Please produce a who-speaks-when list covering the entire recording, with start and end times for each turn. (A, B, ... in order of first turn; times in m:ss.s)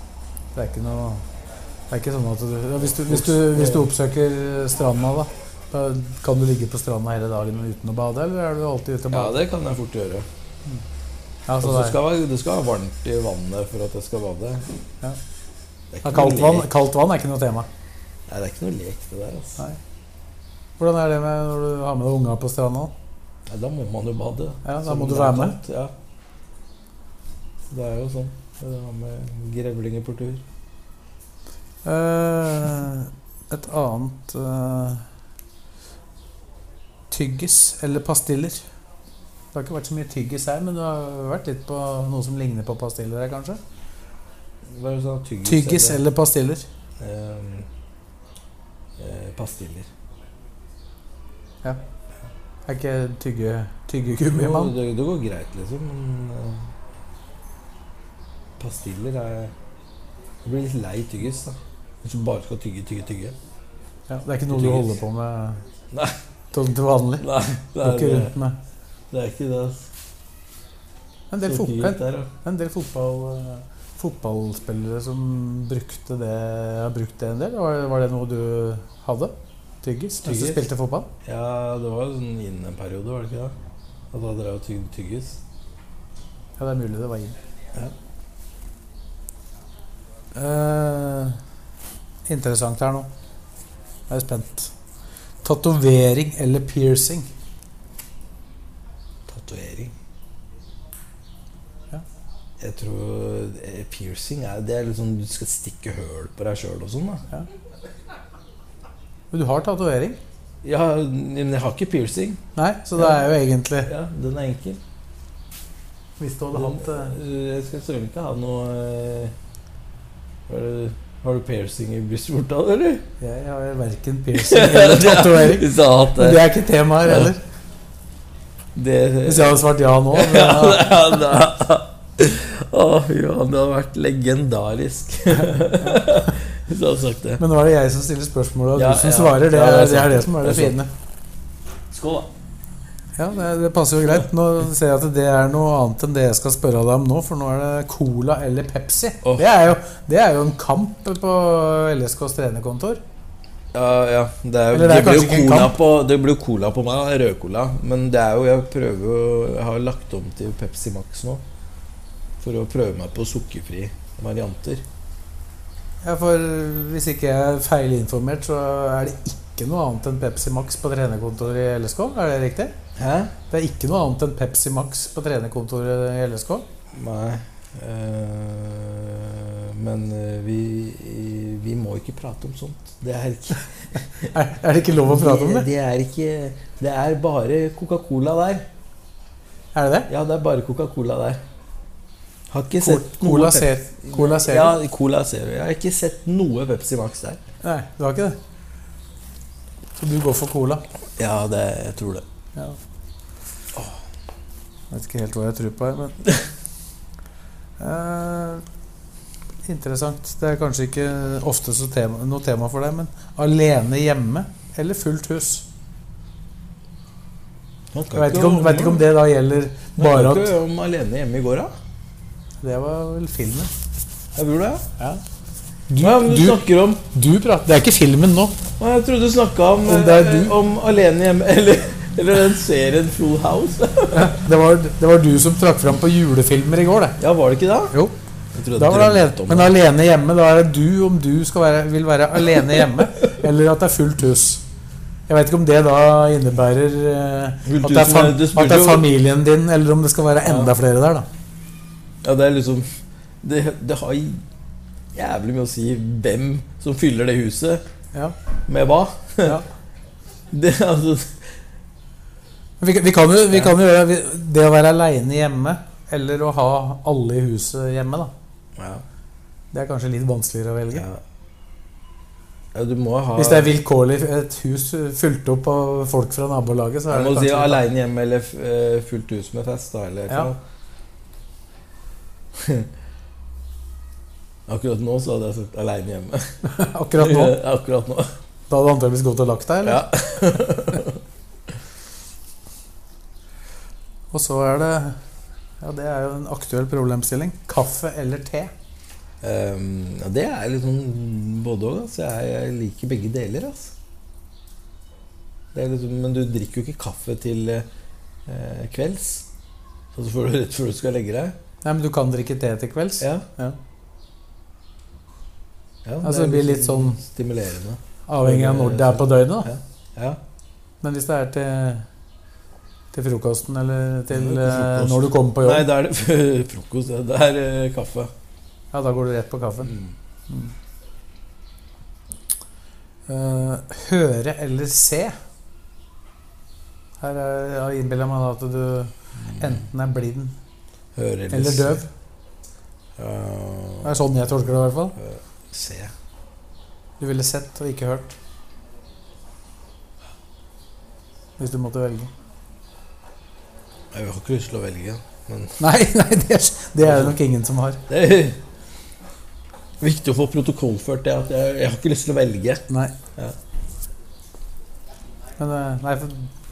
0:00.5-0:01.2 A
0:01.9-0:09.4 A
0:02.9-0:03.9 B
0:09.1-0:10.2 B
0:11.5-0:12.0 A
0:11.6-0:14.6 B
0:15.9-0:16.7 B
0:16.0-0:17.7 A
0:18.3-0:19.6 B
0:20.8-0:22.9 A
0:23.5-0:25.9 B
0:24.6-0:25.6 A
0:27.7-0:30.4 B
0:31.8-0:35.0 A
0:37.1-0:38.6 A
0:39.5-0:43.6 A
0:44.7-0:46.0 B
0:45.4-0:46.6 A
0:47.0-0:47.7 B
0:49.0-0:49.9 B
0:52.7-0:54.7 A
0:54.3-0:56.6 B
0:58.6-0:59.5 B
1:00.4-1:03.3 B
1:04.1-1:05.6 A
1:04.5-1:05.0 B
1:06.5-1:07.3 A
1:07.2-1:08.3 B
1:07.8-1:08.6 A
1:09.1-1:09.9 B
1:11.3-1:21.1 A
1:11.4-1:12.3 B
1:20.2-1:20.6 B
1:21.2-1:23.5 B
1:24.1-1:25.4 B
1:26.6-1:27.4 A
1:30.3-1:31.4 A
1:32.3-1:33.1 A
1:34.1-1:34.7 A
1:35.4-1:37.3 A
1:39.3-1:39.9 B
1:42.6-1:47.2 B
1:49.3-1:50.2 A
1:50.6-1:52.4 B
1:52.6-1:53.9 A
1:53.8-1:54.8 B
1:56.2-1:57.1 A
1:56.5-1:59.3 B
2:00.5-2:03.0 B
2:03.2-2:07.4 A
2:04.4-2:06.5 B
2:07.0-2:07.3 B
2:08.8-2:17.4 B
2:09.2-2:10.9 A
2:15.3-2:16.3 A
2:17.4-2:20.9 A
2:18.7-2:20.8 B
2:21.9-2:22.3 B
2:23.2-2:33.0 A
2:33.7-2:41.4 B
2:34.7-2:35.7 A
2:42.4-2:44.8 B
2:46.0-2:52.7 A
2:53.0-2:53.3 B
2:53.5-2:56.6 A
2:56.9-3:04.3 B
3:04.3-3:05.7 A
3:05.0-3:08.6 B
3:09.7-3:10.1 A
3:10.1-3:11.4 B
3:12.5-3:17.4 B
3:12.8-3:14.8 A
3:17.6-3:18.4 A
3:20.0-3:20.8 A
3:21.2-3:22.2 B
3:24.9-3:26.2 A
3:27.8-3:28.6 A
3:29.6-3:35.6 A
3:37.9-3:39.0 B
3:38.1-3:40.5 A
3:40.0-3:41.7 B
3:42.6-3:43.7 A
3:44.3-3:44.8 B
3:45.9-3:48.6 A
3:46.0-3:47.0 B
3:48.8-3:54.3 B
3:49.8-3:50.6 A
3:54.1-3:57.2 A
3:57.2-3:57.9 B
3:58.5-3:59.7 B
3:58.8-4:04.6 A
4:05.3-4:11.3 A
4:07.6-4:09.1 B
4:10.4-4:10.7 B
4:12.2-4:12.9 B
4:13.4-4:14.4 B
4:15.1-4:17.8 B
4:18.7-4:19.6 B
4:20.5-4:21.4 B
4:22.8-4:28.3 A
4:28.8-4:29.0 B
4:29.7-4:31.0 A
4:30.9-4:31.2 B
4:32.7-4:33.7 B
4:33.4-4:37.8 A
4:37.1-4:40.6 B
4:42.6-4:42.9 B
4:44.7-4:46.5 B
4:46.6-4:47.6 A
4:47.2-4:48.3 B
4:48.7-4:50.0 A
4:49.8-4:51.2 B
4:54.3-4:55.2 A
4:55.8-4:58.7 A
4:59.4-5:03.9 B
5:05.7-5:07.8 B
5:08.4-5:09.5 B
5:10.2-5:11.6 B
5:11.8-5:13.8 A
5:13.2-5:13.4 B
5:16.0-5:20.4 B
5:16.2-5:17.2 A
5:18.3-5:19.7 A
5:21.0-5:22.0 A
5:23.1-5:25.9 A
5:24.3-5:28.3 B
5:28.9-5:29.9 A
5:29.9-5:30.1 B
5:33.3-5:35.4 A
5:37.2-5:40.5 A
5:39.4-5:39.8 B
5:41.2-5:42.0 B
5:41.5-5:42.1 A
5:43.2-5:44.2 B
5:44.0-5:45.2 A
5:45.2-5:46.1 B
5:47.2-5:48.4 A
5:51.6-5:52.3 A
5:54.1-5:55.8 B
5:55.8-5:58.0 A
5:57.0-5:57.4 B
5:58.1-5:58.6 B
6:00.0-6:02.8 B
6:05.6-6:06.5 A